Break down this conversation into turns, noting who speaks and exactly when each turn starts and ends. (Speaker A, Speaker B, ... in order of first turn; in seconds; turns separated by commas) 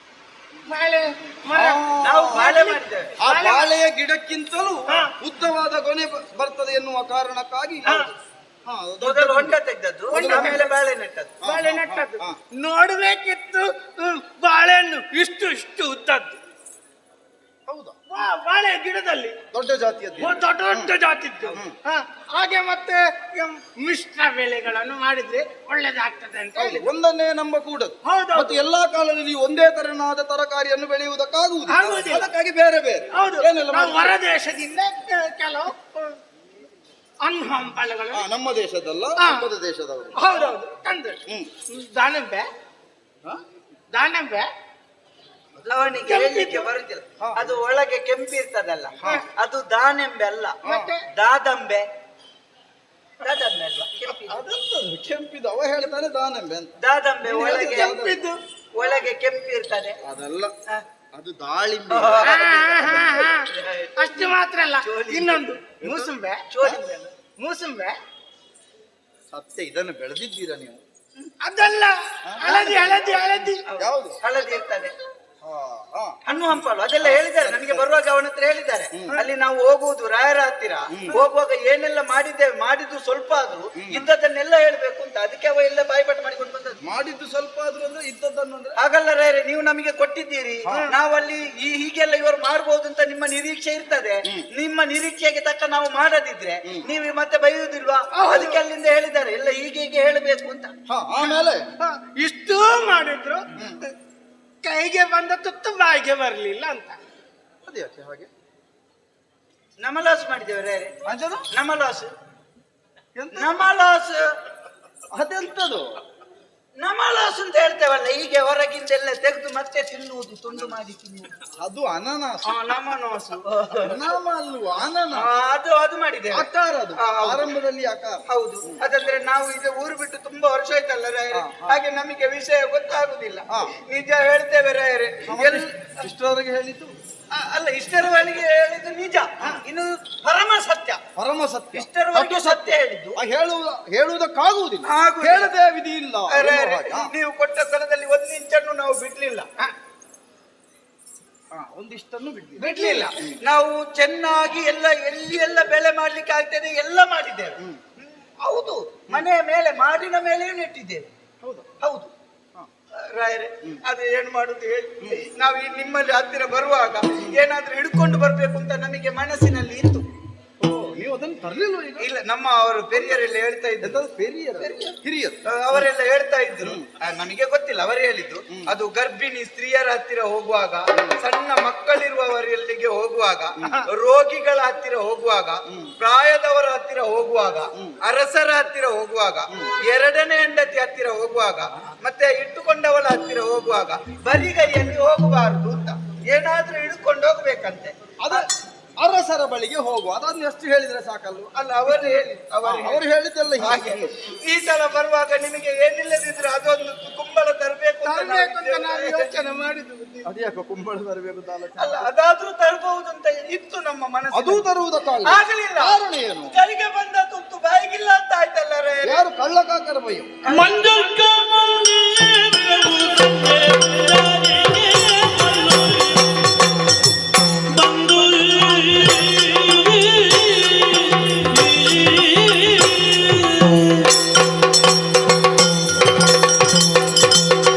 Speaker A: 0.7-1.8, Speaker B: 1.5-2.5, Speaker C: 2.0-3.1, Speaker A: 2.3-3.7, Speaker B: 3.2-8.1, Speaker A: 7.9-8.1, Speaker B: 8.7-9.6, Speaker C: 9.0-11.4, Speaker B: 10.1-10.7, Speaker A: 10.1-10.8, Speaker B: 11.4-12.4, Speaker A: 11.4-16.4, Speaker B: 17.7-18.0, Speaker A: 18.1-19.4, Speaker B: 19.5-20.9, Speaker A: 20.2-26.9, Speaker B: 26.6-34.2, Speaker A: 28.1-28.6, Speaker A: 31.7-32.3, Speaker A: 33.1-36.2, Speaker A: 37.2-38.2, Speaker B: 38.1-40.5, Speaker A: 39.2-39.5, Speaker A: 40.2-42.5, Speaker A: 43.9-44.5, Speaker C: 45.6-50.6, Speaker A: 46.1-46.7, Speaker B: 47.2-47.5, Speaker B: 49.0-49.2, Speaker B: 50.6-50.9, Speaker A: 50.6-51.0, Speaker C: 51.1-51.9, Speaker C: 53.2-54.4, Speaker B: 54.3-56.8, Speaker C: 56.8-58.0, Speaker A: 57.3-58.4, Speaker B: 57.3-58.2, Speaker C: 58.7-60.0, Speaker B: 60.0-60.5, Speaker B: 61.1-63.2, Speaker C: 61.9-65.5, Speaker A: 62.2-66.4, Speaker B: 65.8-66.1, Speaker C: 66.5-67.1, Speaker A: 67.4-68.0, Speaker B: 69.3-70.8, Speaker A: 71.4-73.6, Speaker B: 72.2-74.2, Speaker C: 73.7-74.9, Speaker B: 75.4-77.9, Speaker C: 76.3-86.8, Speaker B: 78.9-79.2, Speaker B: 80.9-81.2, Speaker B: 83.8-84.1, Speaker B: 86.8-88.8, Speaker C: 88.8-100.7, Speaker B: 90.7-90.9, Speaker A: 98.1-98.6, Speaker B: 100.9-101.7, Speaker A: 101.2-103.9, Speaker B: 103.5-103.8, Speaker A: 104.6-107.0, Speaker B: 107.7-108.3, Speaker C: 109.8-111.0, Speaker B: 111.1-111.5, Speaker C: 111.5-112.1, Speaker B: 113.2-113.7, Speaker C: 113.3-114.3, Speaker B: 115.1-116.0, Speaker C: 116.8-121.4, Speaker B: 121.6-122.7, Speaker C: 122.5-124.0, Speaker B: 123.8-125.3, Speaker C: 125.1-127.5, Speaker B: 126.3-128.8, Speaker C: 128.3-135.9, Speaker B: 131.3-131.8, Speaker B: 135.3-136.9, Speaker C: 137.3-141.0, Speaker B: 141.2-147.1, Speaker C: 141.7-143.2, Speaker C: 144.8-145.5, Speaker C: 146.3-149.5, Speaker B: 151.5-153.4, Speaker C: 152.6-161.1, Speaker B: 161.4-161.7, Speaker C: 161.8-162.1, Speaker C: 163.1-170.1, Speaker B: 170.6-172.1, Speaker C: 172.0-174.0, Speaker B: 173.8-175.9, Speaker C: 174.6-198.4, Speaker B: 176.6-176.9, Speaker B: 180.9-181.2, Speaker B: 183.6-183.9, Speaker B: 185.7-185.9, Speaker B: 198.2-198.5, Speaker B: 199.0-204.3, Speaker C: 201.6-203.0, Speaker C: 203.6-209.3, Speaker A: 208.0-210.3, Speaker B: 210.2-212.1, Speaker C: 211.8-214.7, Speaker B: 214.3-216.6, Speaker C: 215.2-219.2, Speaker B: 219.0-220.4, Speaker C: 220.4-220.9, Speaker D: 220.5-226.5, Speaker D: 227.7-234.1